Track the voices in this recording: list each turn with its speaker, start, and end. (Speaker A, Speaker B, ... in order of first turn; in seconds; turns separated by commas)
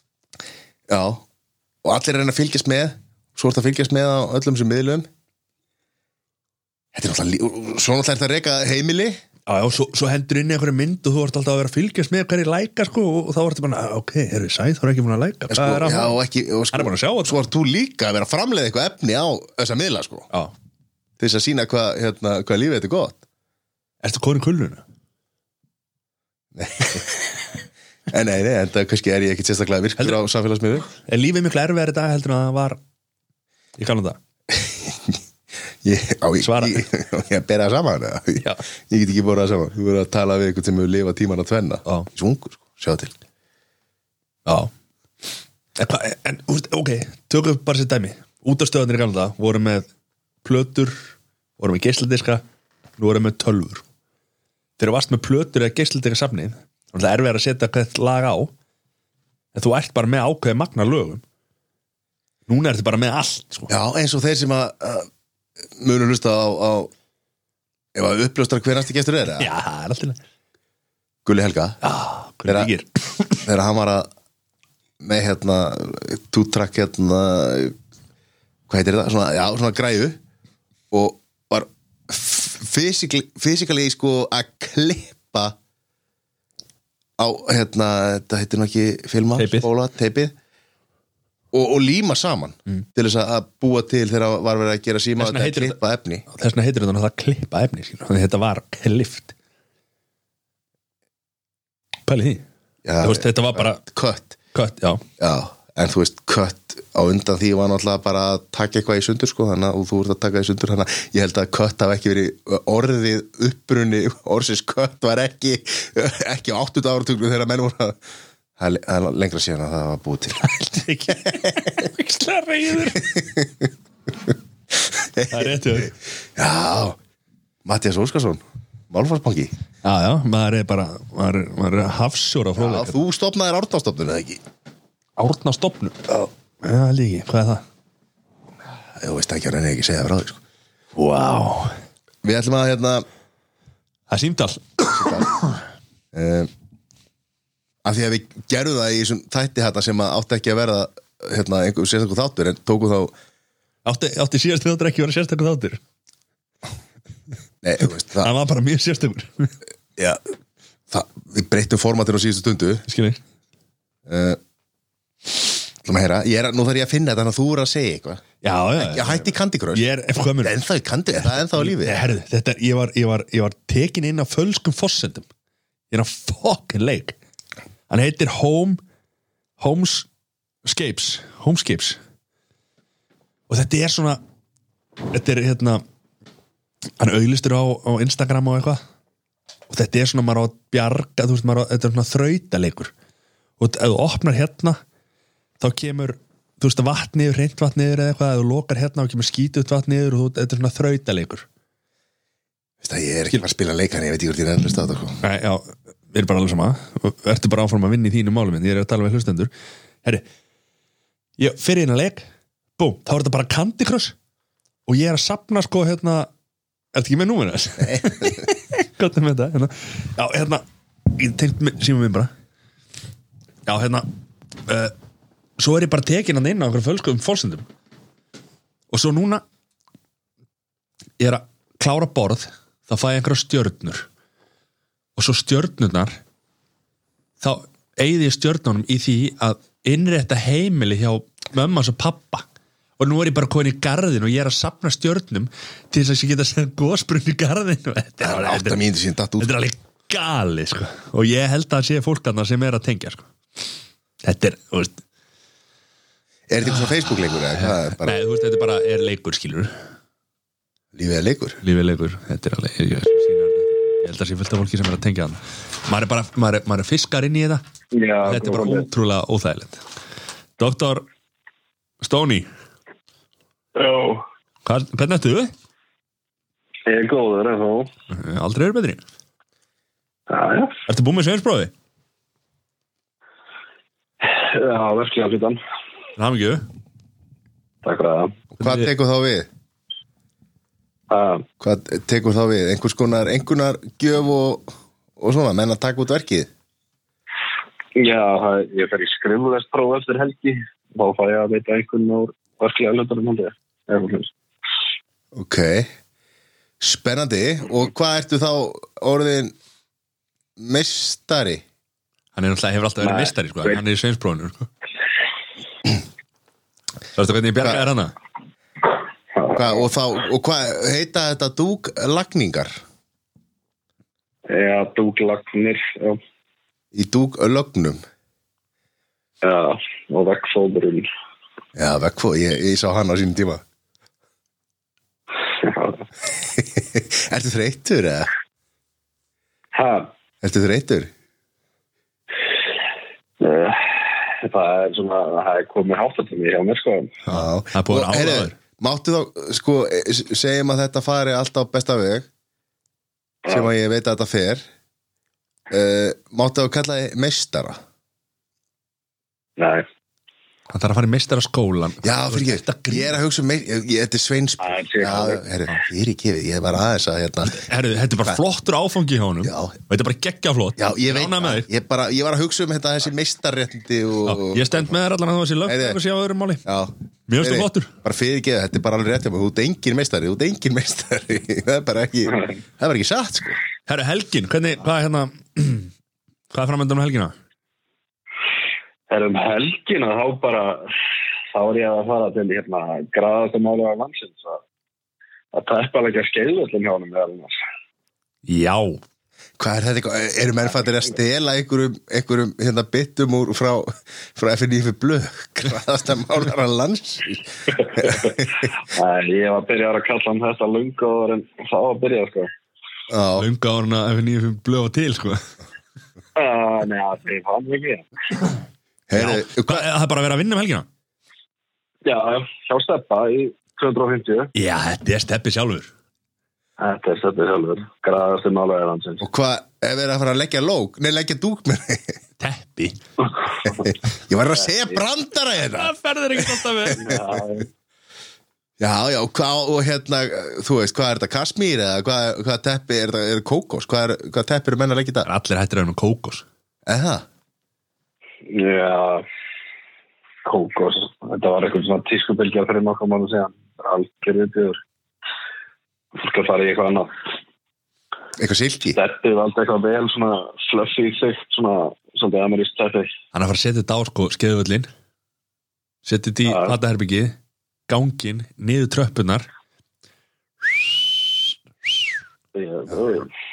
Speaker A: 0.9-1.2, Speaker A: 1.8-5.1, Speaker A: 6.9-9.2, Speaker B: 9.5-16.2, Speaker A: 15.5-20.3, Speaker B: 16.7-17.4, Speaker A: 21.2-23.2, Speaker B: 24.0-24.8, Speaker A: 26.5-27.3, Speaker A: 28.1-30.9, Speaker B: 30.9-32.8, Speaker B: 33.8-34.2, Speaker A: 34.5-35.2, Speaker A: 35.8-43.1, Speaker B: 36.4-36.9, Speaker B: 44.5-44.7, Speaker B: 45.8-49.9, Speaker B: 50.4-52.4, Speaker B: 53.0-53.8, Speaker B: 54.8-58.5, Speaker B: 59.5-61.2, Speaker B: 62.5-63.7, Speaker A: 63.7-65.1, Speaker A: 65.8-66.9, Speaker A: 67.9-69.5, Speaker B: 69.4-70.2, Speaker A: 71.2-71.8, Speaker B: 71.8-73.4, Speaker A: 73.4-74.1, Speaker A: 75.0-77.8, Speaker A: 78.7-80.2, Speaker A: 80.9-85.5, Speaker A: 87.2-90.3, Speaker B: 89.4-89.7, Speaker A: 91.5-96.2, Speaker B: 95.2-95.8, Speaker B: 96.3-99.3, Speaker B: 102.1-102.4, Speaker A: 102.8-104.4, Speaker B: 103.0-103.8, Speaker B: 104.5-105.0, Speaker A: 105.2-118.0, Speaker A: 118.6-120.5, Speaker B: 120.4-123.1, Speaker A: 121.1-121.7, Speaker A: 122.9-123.7, Speaker A: 124.8-127.0, Speaker B: 125.3-125.9, Speaker A: 127.6-129.5, Speaker B: 129.8-133.0, Speaker A: 132.6-134.4, Speaker B: 135.2-137.6, Speaker A: 139.0-140.4, Speaker B: 140.9-141.7, Speaker A: 142.2-143.0, Speaker B: 144.1-145.2, Speaker A: 144.9-145.3, Speaker A: 146.1-146.5, Speaker A: 147.8-153.1, Speaker B: 153.8-155.8, Speaker A: 157.6-158.3, Speaker B: 158.2-159.5, Speaker A: 160.9-162.8, Speaker B: 162.9-163.2, Speaker A: 164.1-164.4, Speaker A: 165.8-168.2, Speaker B: 168.4-170.6, Speaker A: 168.8-169.8, Speaker A: 170.4-172.0, Speaker B: 171.2-175.3, Speaker B: 175.9-177.2, Speaker B: 177.9-178.8, Speaker B: 179.6-180.1, Speaker B: 180.6-182.0, Speaker B: 183.5-184.2, Speaker B: 185.1-185.8, Speaker B: 187.0-188.8, Speaker B: 189.7-192.9, Speaker B: 193.6-194.8, Speaker B: 195.6-201.5, Speaker A: 202.8-205.2, Speaker B: 205.2-209.5, Speaker B: 211.4-212.2, Speaker B: 212.8-214.1, Speaker B: 214.9-216.3, Speaker B: 216.9-222.3, Speaker A: 217.8-218.4, Speaker B: 223.7-224.1, Speaker B: 224.7-224.9, Speaker B: 225.6-227.7, Speaker B: 228.9-229.4, Speaker B: 231.2-234.1, Speaker B: 235.2-236.2, Speaker B: 237.4-242.4, Speaker B: 243.0-248.8, Speaker A: 248.2-249.5, Speaker B: 249.4-253.3, Speaker B: 254.2-255.0, Speaker A: 256.5-258.2, Speaker B: 257.5-259.7, Speaker A: 260.9-261.6, Speaker B: 261.6-267.6, Speaker C: 267.9-268.9, Speaker B: 268.2-269.8, Speaker B: 270.6-271.0, Speaker B: 272.0-272.5, Speaker C: 273.7-274.2, Speaker B: 274.6-275.5, Speaker C: 276.9-277.9, Speaker B: 278.1-279.0, Speaker C: 280.3-280.8, Speaker B: 280.9-281.7, Speaker C: 284.2-285.6, Speaker B: 286.2-286.6, Speaker C: 287.8-288.4, Speaker A: 288.6-289.5, Speaker B: 288.6-288.9, Speaker C: 291.1-291.4, Speaker A: 291.6-296.5, Speaker C: 297.9-304.3, Speaker A: 305.3-305.9, Speaker A: 306.8-309.5, Speaker A: 310.6-311.6, Speaker B: 312.3-314.7, Speaker C: 313.0-313.8, Speaker B: 317.1-318.1, Speaker C: 319.3-319.9, Speaker A: 319.5-322.8, Speaker C: 324.5-326.2, Speaker A: 326.9-328.0, Speaker C: 329.4-331.1, Speaker A: 331.8-333.6, Speaker C: 335.6-336.0, Speaker A: 336.3-338.3, Speaker C: 339.7-340.1, Speaker A: 340.4-341.1, Speaker C: 343.4-347.2, Speaker B: 347.2-348.6, Speaker A: 347.3-352.3, Speaker A: 353.5-354.6, Speaker A: 355.7-357.8, Speaker C: 359.6-359.9, Speaker B: 360.7-363.1, Speaker A: 362.0-367.6, Speaker C: 364.6-365.4, Speaker B: 367.4-371.7, Speaker A: 369.4-369.8, Speaker A: 370.8-374.9, Speaker B: 374.2-376.6, Speaker A: 375.6-376.0, Speaker A: 376.6-383.6, Speaker B: 377.3-377.9, Speaker B: 383.9-385.9, Speaker B: 386.5-387.3, Speaker C: 389.1-390.9, Speaker C: 391.5-394.6, Speaker C: 395.5-397.6, Speaker B: 398.4-399.0, Speaker A: 399.6-408.7, Speaker C: 407.7-412.5, Speaker A: 413.1-413.5, Speaker B: 413.4-415.5, Speaker C: 416.3-418.1, Speaker A: 419.1-419.9, Speaker B: 419.1-420.9, Speaker C: 422.0-424.5, Speaker B: 424.5-425.9, Speaker C: 426.8-429.2, Speaker A: 429.2-432.2, Speaker B: 432.4-433.0, Speaker C: 433.6-433.9, Speaker A: 433.6-437.4, Speaker C: 434.6-435.0, Speaker B: 435.7-437.1, Speaker C: 436.9-437.7, Speaker A: 438.8-445.3, Speaker B: 445.2-446.4, Speaker A: 446.9-447.2, Speaker C: 448.5-449.2, Speaker C: 450.4-454.8, Speaker C: 456.1-457.1, Speaker A: 458.4-459.0, Speaker C: 458.9-463.1, Speaker B: 463.3-464.9, Speaker B: 466.0-467.4, Speaker C: 466.4-466.8, Speaker B: 467.9-469.5, Speaker C: 472.5-473.3